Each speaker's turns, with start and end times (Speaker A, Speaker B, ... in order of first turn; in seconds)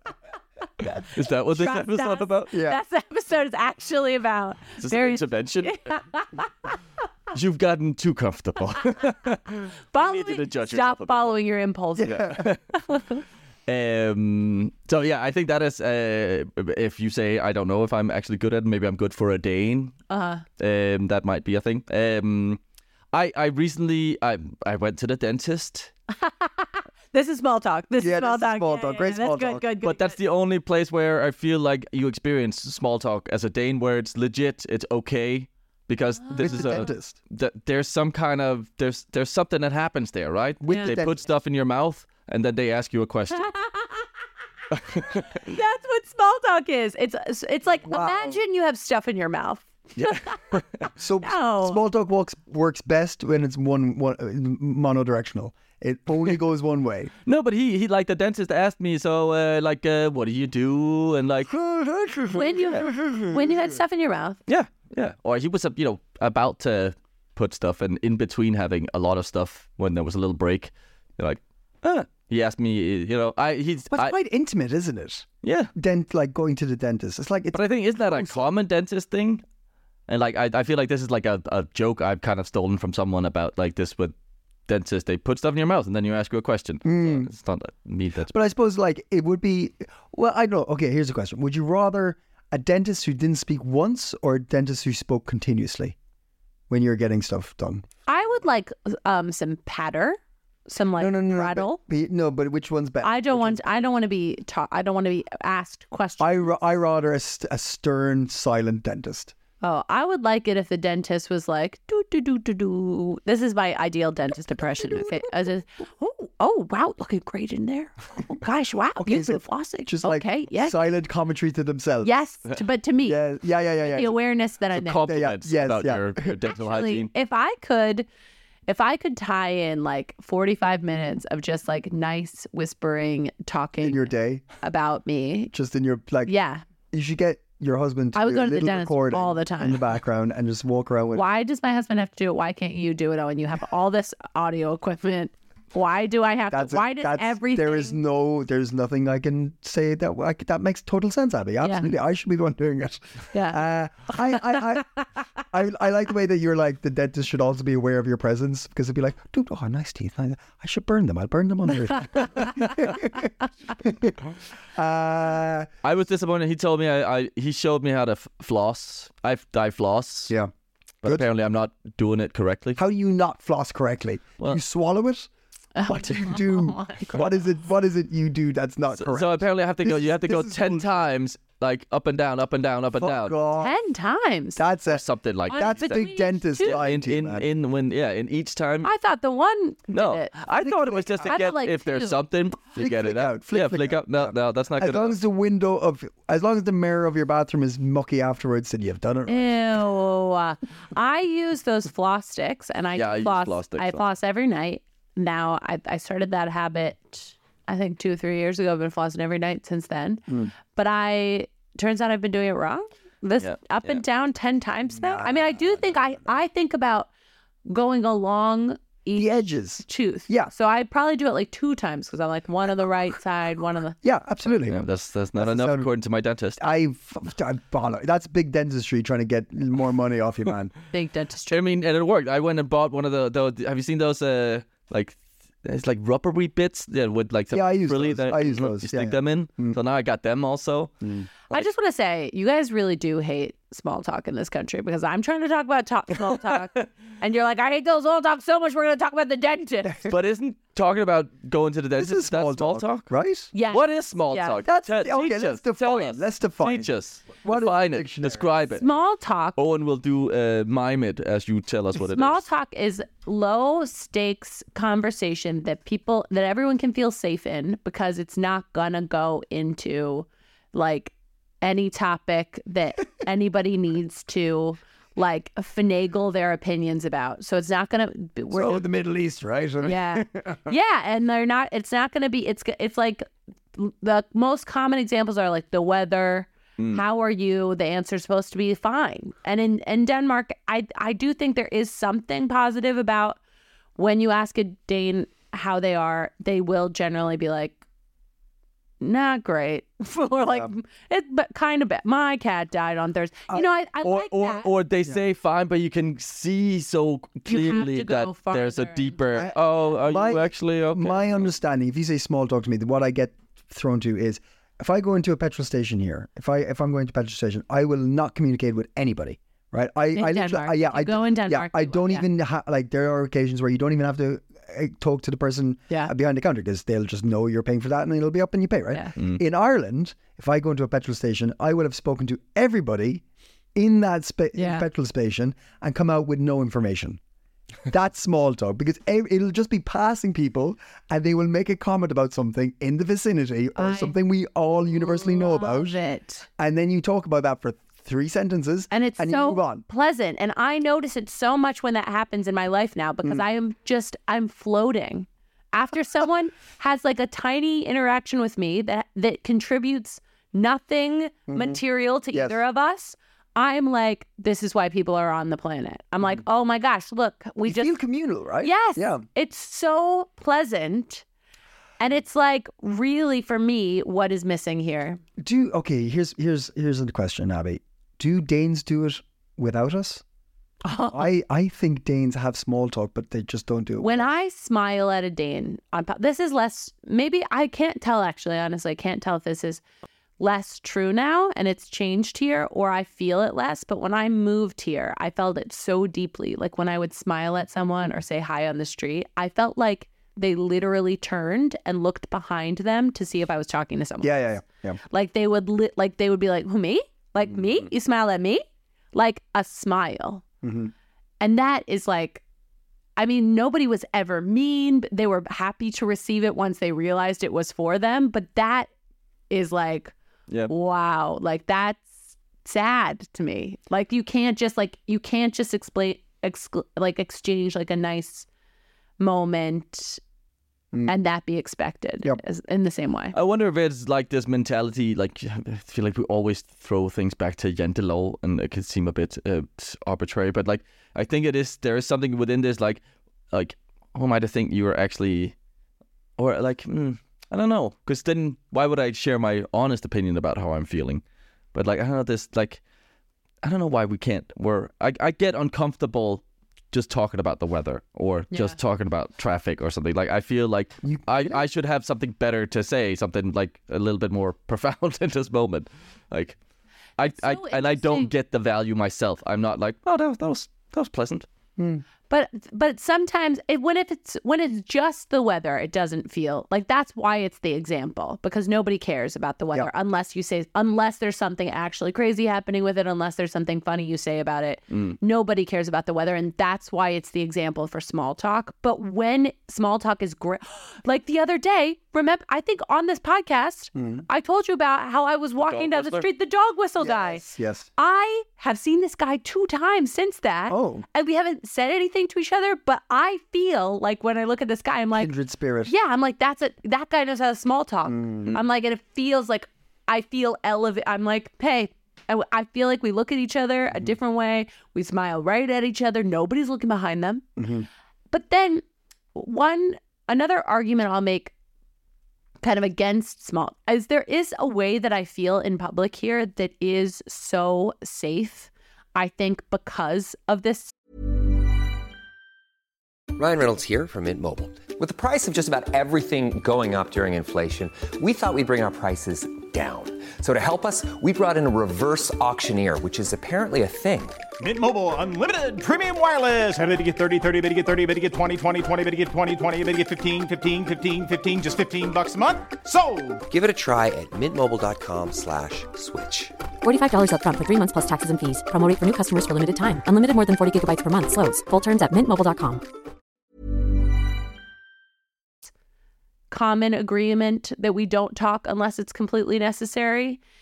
Speaker A: 0.8-6.8, 9.9-12.2, 12.7-13.2, 20.1-20.4, 26.1-30.2, 36.4-36.7, 40.7-40.9, 43.6-44.0, 45.3-50.3, 51.2-51.8, 62.3-64.4, 98.1-101.8, 103.0-106.4, 109.6-120.8, 122.0-123.2, 123.9-125.0, 126.5-128.1, 128.7-135.5, 136.3-136.6, 138.1-139.8, 141.1-148.0, 151.6-151.9, 153.3-153.6, 154.3-154.6, 175.7-177.1, 183.6-184.6, 185.5-186.8, 188.8-192.2, 199.3-217.1, 217.7-224.0, 230.9-231.6, 241.5-250.1, 253.5-254.6, 258.7-259.6, 262.0-278.8, 279.8-293.4, 294.0-297.8, 299.0-304.7, 307.5-309.2, 320.1-322.2, 334.5-334.9, 343.8-344.1, 345.0-346.4, 348.9-367.9, 368.6-371.2, 372.0-375.2, 380.8-381.3, 384.0-389.8, 390.4-404.4, 405.1-410.4, 411.4-412.4, 413.2-418.9, 419.5-420.1, 420.7-428.5, 429.2-430.2, 431.1-433.3, 458.5-458.8, 467.3-468.3, 472.3-497.4, 498.0-505.3, 505.9-517.5, 518.3-518.8, 519.3-521.5, 522.6-530.9, 566.5-570.4
Speaker B: 1.1-2.5, 4.8-6.0, 7.3-11.3, 12.0-12.6, 13.7-19.9, 20.6-22.6, 23.1-25.9, 29.8-43.5, 44.7-45.3, 50.0-50.9, 57.2-61.5, 64.5-74.1, 75.4-75.7, 77.5-79.4, 80.1-84.1, 84.7-88.3, 124.7-127.1, 165.8-170.3, 171.0-172.8, 179.0-183.3, 184.9-186.0, 186.6-188.9, 189.9-195.2, 202.9-204.0, 213.4-214.0, 224.7-226.6, 231.5-240.9, 250.1-253.1, 253.6-258.8, 259.6-262.4, 304.0-311.2, 433.3-443.0, 443.5-445.5, 446.4-451.2, 451.7-452.8, 453.6-466.6, 467.2-471.4, 484.9-485.1, 495.6-496.3
Speaker C: 2.5-2.8, 12.0-12.5, 28.0-29.6, 36.4-37.1, 40.6-41.2, 47.9-48.4, 51.0-57.1, 61.5-63.6, 73.9-77.6, 78.1-78.4, 86.8-87.3, 88.3-96.0, 96.7-97.8, 101.0-103.8, 106.2-109.3, 114.6-115.5, 119.0-122.1, 123.0-124.1, 125.0-126.3, 133.8-134.4, 135.5-136.3, 136.9-141.2, 146.5-154.9, 155.5-164.2, 164.7-165.7, 172.8-175.3, 175.9-180.9, 182.9-183.7, 184.6-187.4, 190.6-191.4, 192.7-199.5, 210.3-210.5, 215.0-216.2, 219.1-220.5, 224.0-224.8, 225.4-225.9, 226.6-230.7, 237.5-239.8, 241.0-241.3, 252.0-253.5, 254.7-256.9, 257.4-258.5, 278.5-280.7, 309.3-333.2, 333.7-337.2, 337.9-346.0, 346.6-349.8, 361.5-361.8, 362.3-362.6, 367.6-369.2, 375.4-380.2, 381.1-384.3, 404.2-405.0, 410.6-410.9, 461.0-461.6, 471.8-472.0, 493.9-494.2, 497.0-497.9, 500.7-501.0, 505.1-505.9, 508.1-508.6, 517.6-517.9
Speaker D: 533.4-544.4, 553.5-556.5
Speaker E: 544.6-553.4
Speaker F: 556.8-562.8